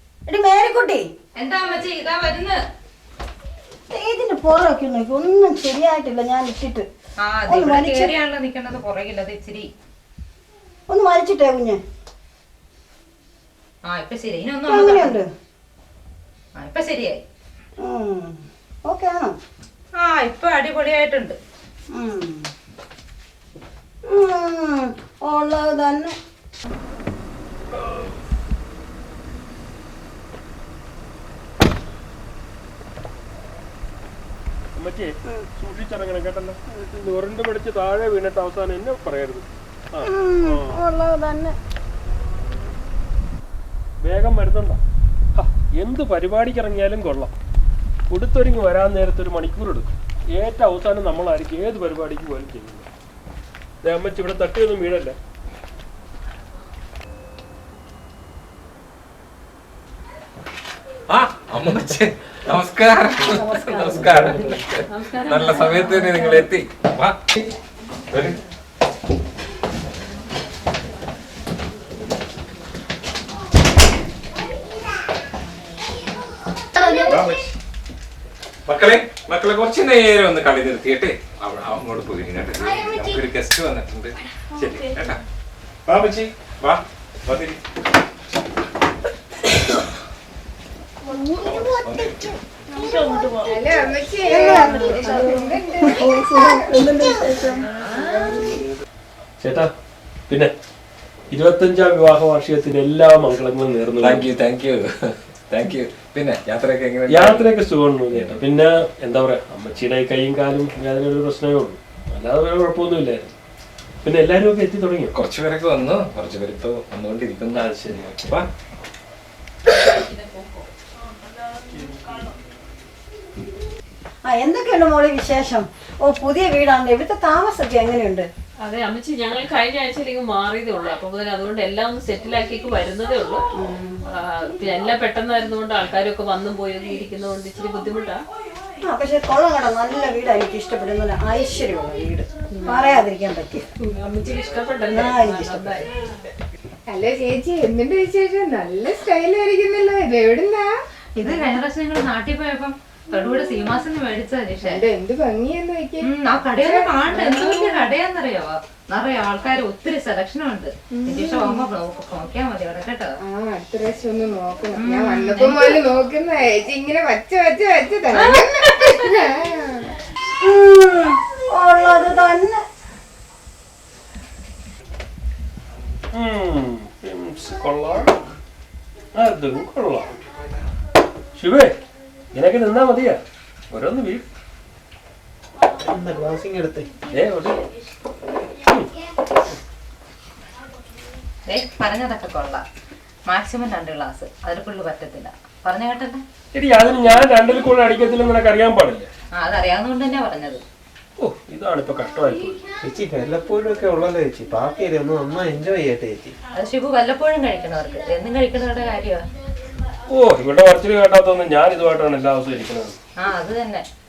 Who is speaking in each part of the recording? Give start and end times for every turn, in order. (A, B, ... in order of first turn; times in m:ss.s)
0:00.3-0:01.1 A
0:01.4-0:02.6 B
0:03.9-0:06.8 A
0:07.2-0:09.7 B
0:07.5-0:08.1 A
0:10.9-0:11.8 A
0:13.8-0:15.2 B
0:14.6-0:15.3 A
0:16.6-0:17.2 B
0:17.8-0:19.4 A
0:20.0-0:21.4 B
0:21.9-0:22.5 A
0:24.0-0:26.1 A
0:34.8-0:40.8 C
0:40.0-0:41.6 A
0:44.0-0:44.8 C
0:45.3-0:47.3 C
0:48.1-0:52.9 C
0:53.8-0:55.2 C
1:01.1-1:07.1 D
1:04.9-1:06.5 E
1:08.1-1:08.4 D
1:16.8-1:17.5 D
1:18.7-1:25.2 D
1:25.9-1:27.6 D
1:31.1-1:32.1 A
1:31.4-1:32.3 D
1:33.4-1:36.7 F
1:34.3-1:37.6 A
1:39.4-1:39.7 C
1:41.3-1:44.3 C
1:44.0-1:44.9 D
1:45.5-1:47.5 D
1:47.1-1:53.3 C
1:48.1-1:48.4 D
1:54.0-1:55.1 C
1:55.1-1:58.5 D
1:57.5-1:58.1 C
2:04.2-2:08.3 A
2:08.6-2:13.4 E
2:13.6-2:14.0 A
2:14.1-2:18.2 E
2:18.8-2:23.7 A
2:22.5-2:22.9 E
2:23.8-2:25.9 E
2:24.9-2:25.8 A
2:26.9-2:30.7 F
2:31.2-2:34.8 B
2:31.2-2:31.5 F
2:34.6-2:37.9 F
2:36.0-2:43.2 B
2:40.9-2:41.7 F
2:43.2-2:49.9 F
2:44.8-2:45.8 B
2:48.1-2:49.0 B
2:50.4-2:52.6 A
2:56.1-2:58.2 C
2:59.2-3:00.2 C
3:01.4-3:01.8 C
3:02.3-3:03.2 C
3:03.7-3:04.2 C
3:05.8-3:06.9 G
3:07.1-3:07.6 C
3:08.6-3:08.9 C
3:11.5-3:12.6 B
3:13.3-3:16.2 B
3:16.5-3:19.1 C
3:19.3-3:20.6 B
3:21.2-3:22.6 C
3:22.8-3:26.4 G
3:26.5-3:29.3 B
3:30.1-3:33.0 C
3:33.2-3:33.9 B